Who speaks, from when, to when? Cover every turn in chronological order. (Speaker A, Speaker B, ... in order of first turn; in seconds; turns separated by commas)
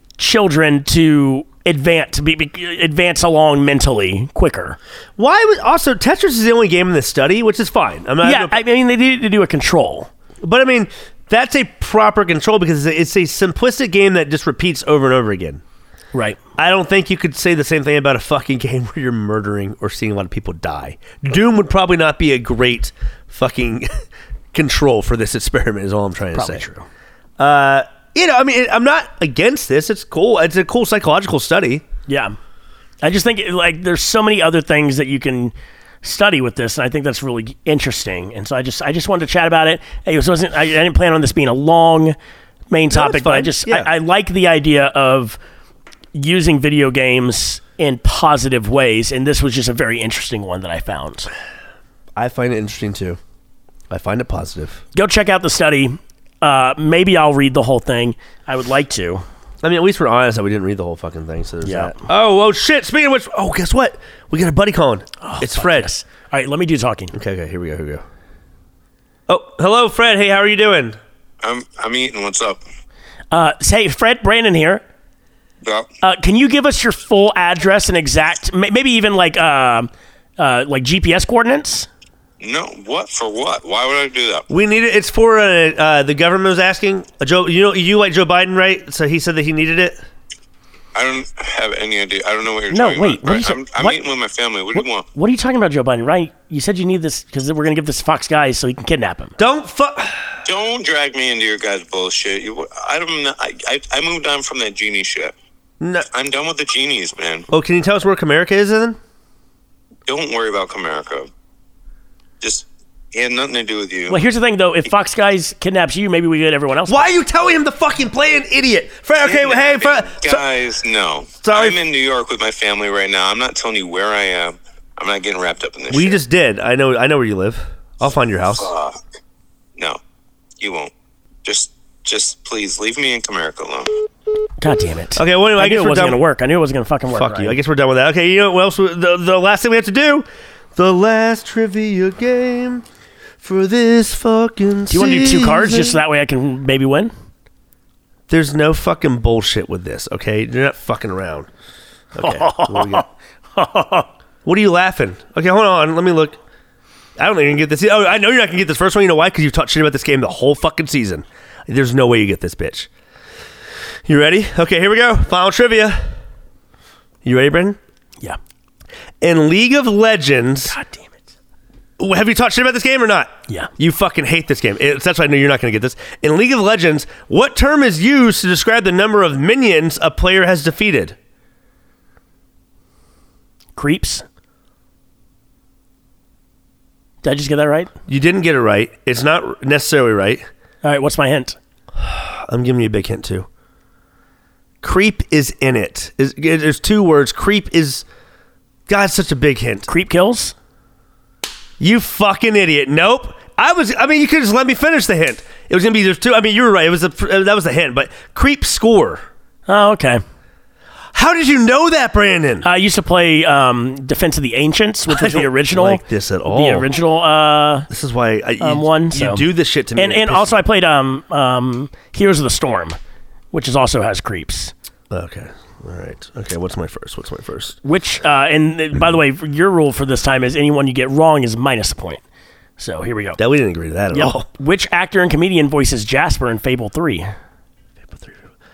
Speaker A: 0.2-4.8, Speaker B: 5.2-8.6, Speaker A: 8.2-10.1, Speaker B: 10.4-15.6, Speaker A: 16.1-16.4, Speaker B: 16.6-23.9, Speaker B: 24.5-26.6, Speaker A: 26.3-26.9, Speaker B: 27.4-31.8, Speaker A: 32.1-32.4, Speaker A: 33.0-42.1, Speaker A: 42.7-45.4, Speaker B: 42.9-43.9, Speaker A: 46.1-51.3, Speaker B: 52.1-53.2, Speaker B: 53.9-54.8, Speaker A: 54.9-59.2, Speaker B: 59.6-65.9, Speaker A: 61.6-61.9, Speaker A: 65.2-67.1, Speaker B: 67.1-68.0, Speaker B: 69.3-71.0, Speaker C: 71.4-72.6, Speaker A: 73.3-74.8, Speaker A: 76.0-81.9, Speaker C: 82.4-84.5, Speaker B: 84.5-90.0, Speaker C: 90.9-95.0, Speaker A: 92.7-94.0, Speaker A: 94.7-99.3, Speaker B: 99.4-100.2, Speaker C: 100.4-105.3, Speaker B: 105.8-106.0, Speaker C: 106.1-107.5, Speaker B: 107.5-109.0, Speaker C: 110.1-111.3, Speaker C: 112.4-114.2, Speaker A: 114.1-117.1, Speaker B: 116.9-120.4, Speaker C: 119.2-126.2, Speaker B: 121.4-121.8, Speaker B: 125.9-128.7, Speaker C: 128.6-129.0, Speaker C: 130.6-130.9, Speaker C: 131.4-133.9, Speaker A: 134.6-137.6, Speaker B: 135.2-136.2, Speaker B: 137.1-142.8, Speaker B: 143.4-146.0, Speaker A: 144.9-147.1, Speaker B: 148.3-151.5, Speaker B: 152.1-153.1, Speaker A: 152.2-154.1, Speaker B: 154.4-156.4, Speaker B: 157.2-162.9, Speaker B: 164.1-166.1, Speaker B: 167.2-167.8, Speaker B: 169.2-170.8, Speaker A: 170.7-171.2, Speaker B: 172.0-181.2, Speaker A: 183.8-184.2, Speaker A: 187.2-187.9, Speaker B: 188.1-190.4, Speaker A: 190.8-191.6, Speaker B: 192.0-193.5, Speaker B: 194.8-198.0, Speaker B: 198.9-199.9, Speaker A: 199.9-200.5, Speaker B: 201.8-209.2, Speaker A: 209.7-210.2, Speaker B: 211.1-212.7, Speaker A: 212.6-217.9, Speaker B: 215.1-216.9, Speaker B: 217.9-220.6, Speaker A: 218.6-223.0, Speaker A: 223.5-224.7, Speaker B: 225.1-227.8, Speaker A: 227.8-232.2, Speaker A: 232.8-233.4, Speaker B: 233.4-234.4, Speaker A: 234.1-237.3, Speaker B: 238.1-238.4